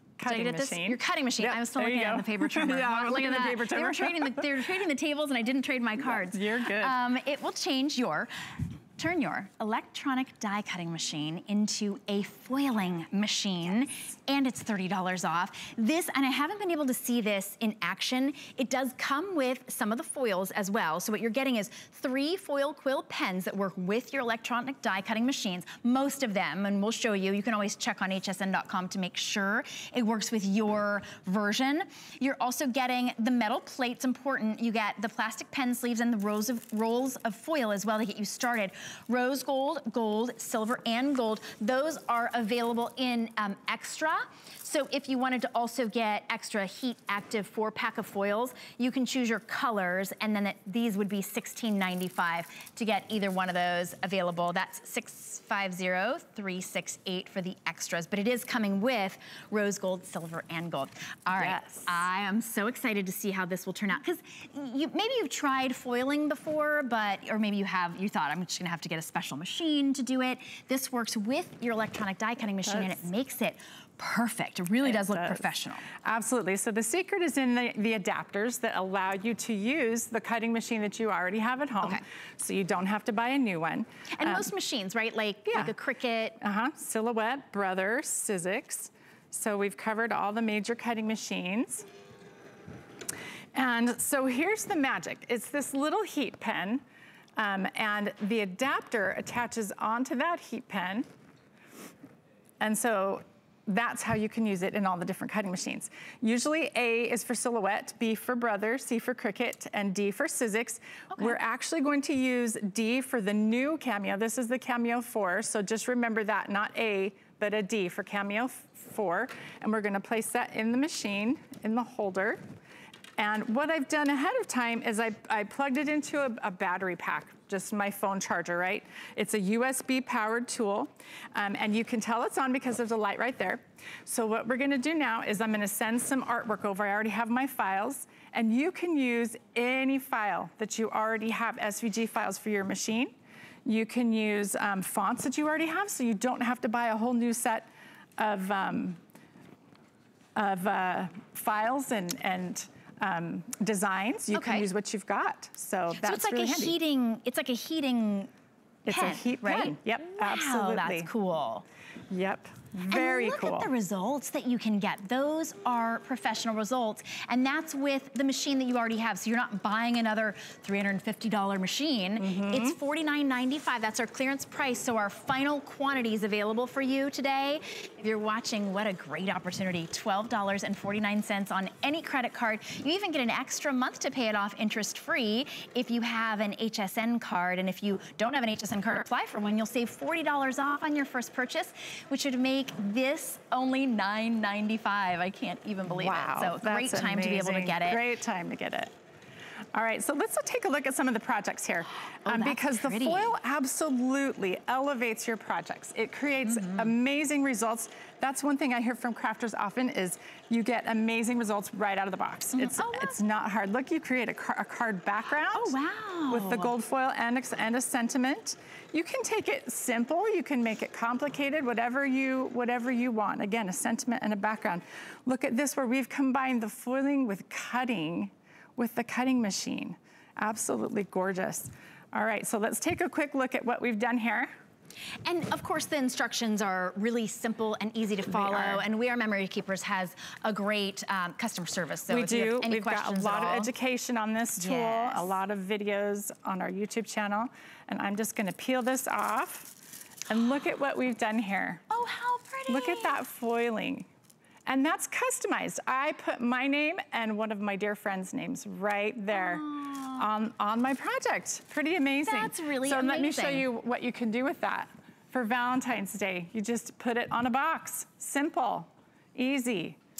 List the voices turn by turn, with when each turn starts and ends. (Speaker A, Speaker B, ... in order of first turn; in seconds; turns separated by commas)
Speaker A: 0.2-4.5, Speaker B: 0.2-8.3, Speaker A: 6.0-7.0, Speaker B: 9.0-75.9, Speaker A: 61.3-62.0, Speaker A: 72.6-73.1, Speaker A: 74.8-75.5, Speaker A: 76.0-84.5, Speaker B: 84.1-86.4, Speaker A: 85.5-85.7, Speaker A: 86.4-91.9, Speaker A: 93.5-96.8, Speaker A: 97.4-101.1, Speaker A: 102.6-122.4, Speaker A: 123.2-143.1, Speaker A: 143.6-149.0, Speaker A: 150.3-156.8, Speaker B: 154.3-154.7, Speaker B: 155.9-158.3, Speaker A: 158.8-161.1, Speaker B: 158.9-161.6, Speaker A: 162.1-163.7, Speaker B: 162.9-198.0, Speaker A: 172.2-172.8, Speaker A: 195.9-198.9, Speaker A: 199.7-215.7, Speaker B: 202.2-203.3, Speaker B: 206.4-206.9, Speaker B: 212.5-213.2, Speaker B: 215.5-216.7, Speaker A: 216.3-234.5, Speaker B: 235.2-243.7, Speaker A: 238.3-238.8, Speaker A: 242.1-249.7, Speaker B: 244.6-245.3, Speaker A: 250.3-251.8, Speaker B: 251.9-253.2, Speaker A: 252.7-254.1, Speaker A: 254.7-270.0, Speaker B: 259.3-260.2, Speaker B: 262.2-263.7